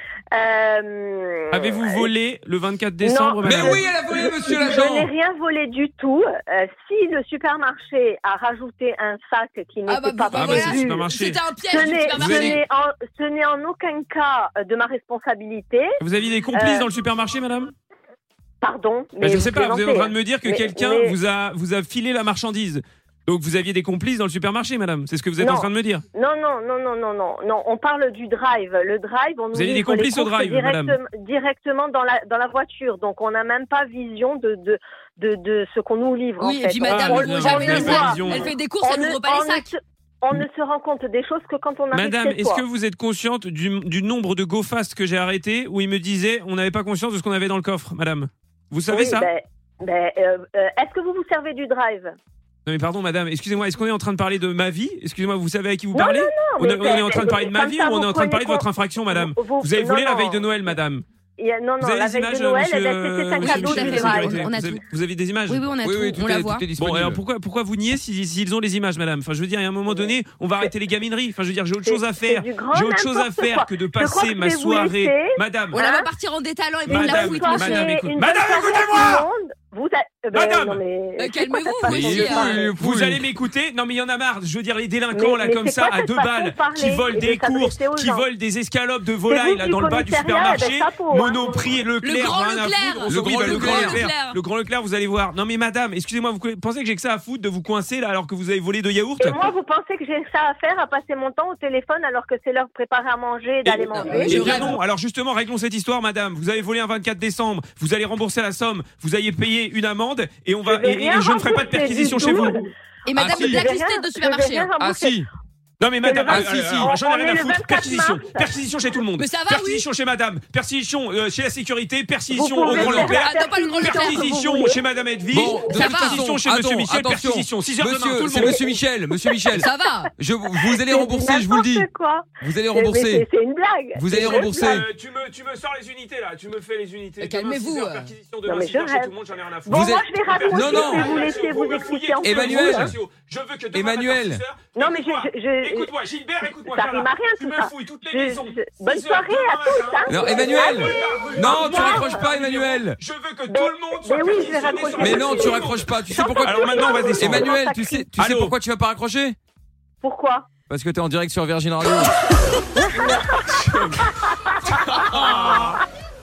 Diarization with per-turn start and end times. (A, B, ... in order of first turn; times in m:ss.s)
0:00.3-0:02.1 A
0:01.5-0:03.9 B
0:03.0-0:11.1 A
0:03.4-0:05.1 C
0:09.9-0:12.6 D
0:10.3-0:11.4 B
0:11.7-0:16.0 A
0:12.1-0:12.6 B
0:16.0-0:17.7 B
0:16.5-0:16.9 A
0:18.6-0:21.2 A
0:19.2-0:26.0 B
0:25.4-0:42.6 A
0:29.5-0:31.0 B
0:36.4-0:39.7 D
0:36.8-0:38.5 B
0:41.9-0:49.3 B
0:48.9-0:52.2 A
0:52.7-1:01.0 B
0:55.9-1:00.5 A
1:01.4-1:04.5 A
1:01.8-1:05.6 B
1:03.4-1:04.8 D
1:05.5-1:06.6 D
1:05.8-1:07.2 C
1:06.8-1:15.8 B
1:11.8-1:16.1 A
1:15.7-1:18.0 D
1:16.9-1:19.3 B
1:16.9-1:22.7 A
1:20.3-1:20.8 B
1:21.2-1:22.6 D
1:21.9-1:23.2 C
1:22.8-1:39.4 B
1:25.1-1:28.2 A
1:29.3-1:31.6 A
1:32.0-1:34.4 D
1:33.1-1:34.0 C
1:39.2-1:44.8 A
1:43.7-1:52.6 B
1:44.0-1:44.8 D
1:50.6-1:52.7 A
1:53.0-1:54.7 D
1:53.1-1:53.6 C
1:53.3-1:53.6 B
1:53.3-1:55.2 A
1:54.8-1:55.3 C
1:55.8-2:08.7 B
1:56.0-1:58.6 A
1:56.2-1:56.9 C
1:59.2-1:59.9 D
2:02.3-2:04.8 A
2:02.7-2:03.2 C
2:02.7-2:04.2 D
2:05.3-2:11.9 C
2:05.6-2:06.2 D
2:08.3-2:08.6 A
2:09.5-2:10.1 D
2:10.8-2:14.5 A
2:12.4-2:13.3 C
2:14.0-2:14.9 C
2:14.1-2:37.5 B
2:17.2-2:18.2 D
2:18.5-2:19.1 A
2:19.6-2:23.0 A
2:19.7-2:21.2 C
2:22.2-2:23.0 C
2:23.7-2:24.4 C
2:24.8-2:25.9 A
2:26.7-2:32.3 A
2:30.1-2:33.0 C
2:33.5-2:38.1 A
2:35.0-2:39.4 C
2:38.2-2:38.5 B
2:40.0-2:40.5 A
2:40.7-2:42.1 C
2:42.7-2:45.3 A
2:43.6-2:44.1 B
2:44.7-2:45.8 B